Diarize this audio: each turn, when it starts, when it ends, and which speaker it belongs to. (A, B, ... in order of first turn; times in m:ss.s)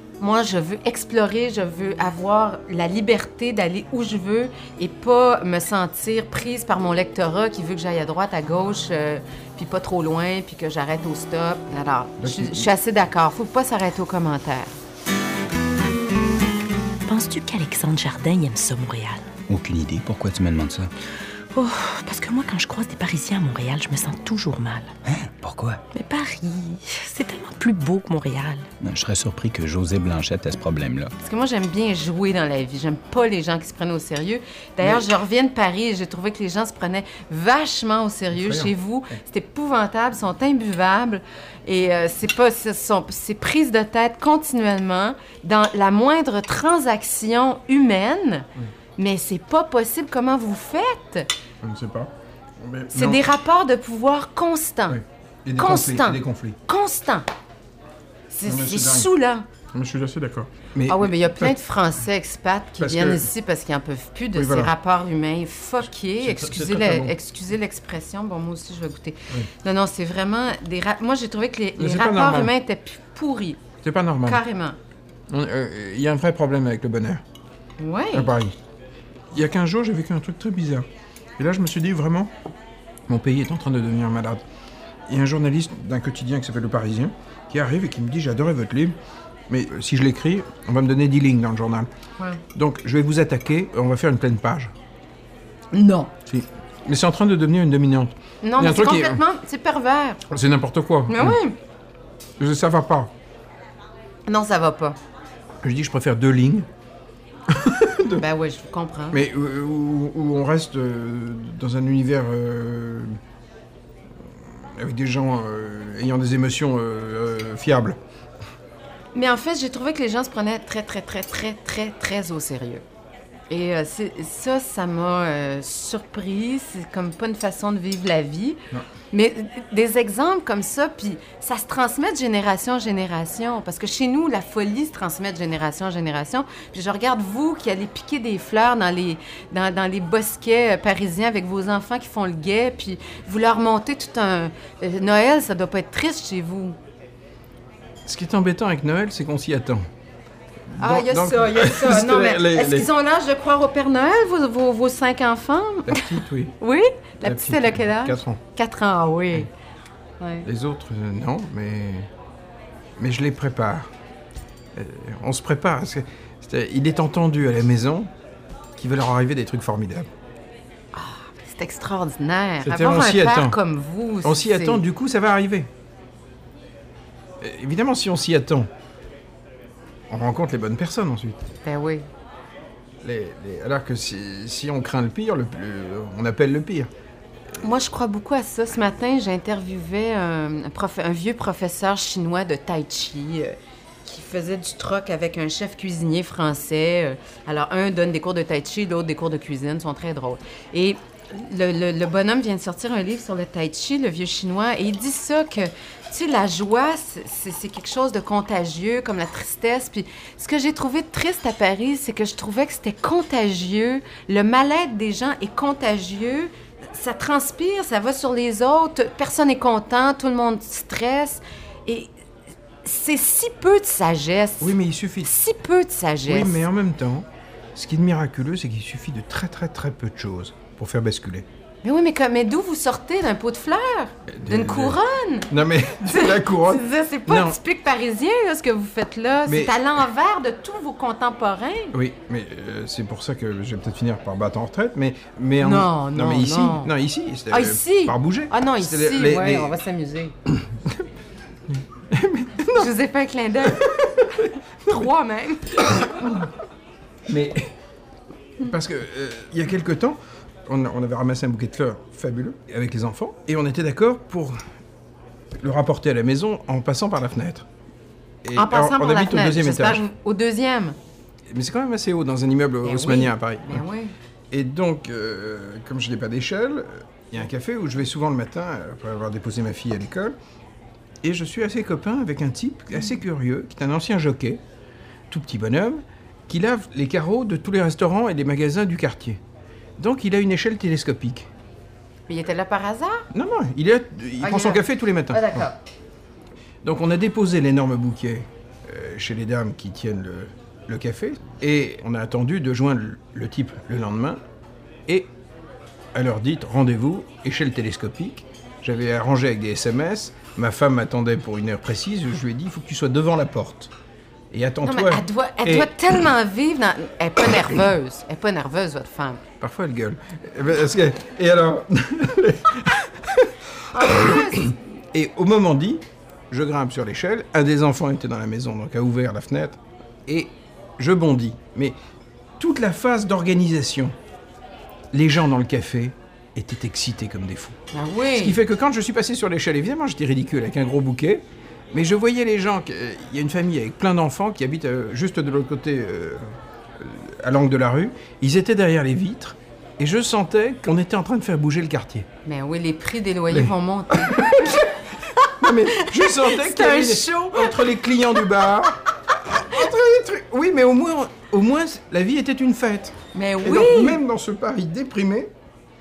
0:00.2-0:14.8 A
0:12.2-0:12.7 B
0:17.1-0:19.3 C
0:19.5-0:20.9 D
0:21.5-0:24.9 C
0:25.0-0:25.8 D
0:25.9-0:28.7 C
0:28.8-0:31.1 D
0:31.2-0:51.3 A
0:38.3-0:38.7 B
0:51.6-0:53.2 B
0:52.9-0:55.0 A
0:54.9-0:56.6 B
0:55.6-0:57.3 A
0:58.3-0:59.4 A
0:58.4-0:59.1 B
0:59.7-1:01.5 B
1:00.9-1:13.6 A
1:02.8-1:03.3 B
1:04.3-1:04.7 B
1:06.2-1:07.1 B
1:11.8-1:12.5 B
1:13.8-1:14.4 B
1:14.2-1:14.8 A
1:15.3-1:17.2 B
1:17.8-1:18.3 A
1:18.1-1:18.5 B
1:19.3-1:20.8 B
1:21.4-1:22.3 B
1:23.1-1:24.4 B
1:25.1-1:28.9 B
1:29.5-1:31.9 B
1:32.5-1:34.7 B
1:35.7-1:36.1 A
1:36.2-1:39.2 B
1:38.4-1:40.2 A
1:40.3-1:41.4 B
1:41.1-1:41.6 A
1:42.4-1:43.1 B
1:44.3-1:45.0 A
1:45.6-1:46.7 B
1:47.5-1:48.2 B
1:48.2-1:49.2 A
1:49.1-1:53.2 B
1:54.4-1:58.0 B
1:59.1-2:02.8 A
2:03.5-2:26.8 A
2:28.0-2:29.8 B
2:30.7-2:32.9 B
2:30.8-2:39.5 A
2:35.8-2:36.6 B
2:37.2-2:38.4 B
2:40.2-2:40.5 A
2:40.4-2:42.1 B
2:43.0-2:43.9 B
2:44.7-2:48.1 B
2:48.8-2:50.1 B
2:50.9-2:54.8 A
2:52.6-2:53.6 B
2:54.2-2:55.7 B
2:57.4-2:58.7 B
3:00.1-3:01.5 B
3:01.6-3:02.1 A
3:03.0-3:06.9 B
3:07.6-3:42.1 A
3:42.8-3:46.6 A
3:44.6-3:45.3 B
3:46.2-3:51.5 B
3:51.8-3:55.5 A
3:54.3-3:55.0 B
3:55.5-3:57.6 B
3:56.1-4:01.9 A
3:59.4-3:59.7 B
4:01.9-4:09.8 B
4:05.6-4:06.9 A
4:07.5-4:10.3 A
4:10.5-4:11.0 B
4:11.7-4:12.9 B
4:12.7-4:13.9 A
4:13.6-4:15.1 B
4:14.8-4:16.3 A
4:15.9-4:16.4 B
4:17.3-4:17.7 B
4:18.6-4:24.6 B
4:25.6-4:27.7 B
4:28.4-4:30.0 B
4:28.6-4:31.0 A
4:31.5-4:33.8 B
4:32.8-4:34.1 A
4:34.5-4:40.4 B
4:41.2-4:44.6 B
4:45.3-4:49.4 B
4:50.0-4:51.5 B
4:52.3-4:53.2 A
4:53.3-4:55.7 B
4:54.4-4:55.8 A
4:56.8-5:04.4 B
5:06.1-5:13.9 B
5:14.5-5:15.9 B
5:14.8-5:19.4 A
5:19.6-5:32.0 B
5:23.9-5:24.8 A
5:32.6-5:34.1 B
5:35.1-5:37.8 B
5:37.9-5:38.6 A
5:38.3-5:52.3 B
5:52.4-5:54.8 A
5:53.5-6:05.5 B
5:55.4-5:57.8 A
6:03.3-6:04.2 A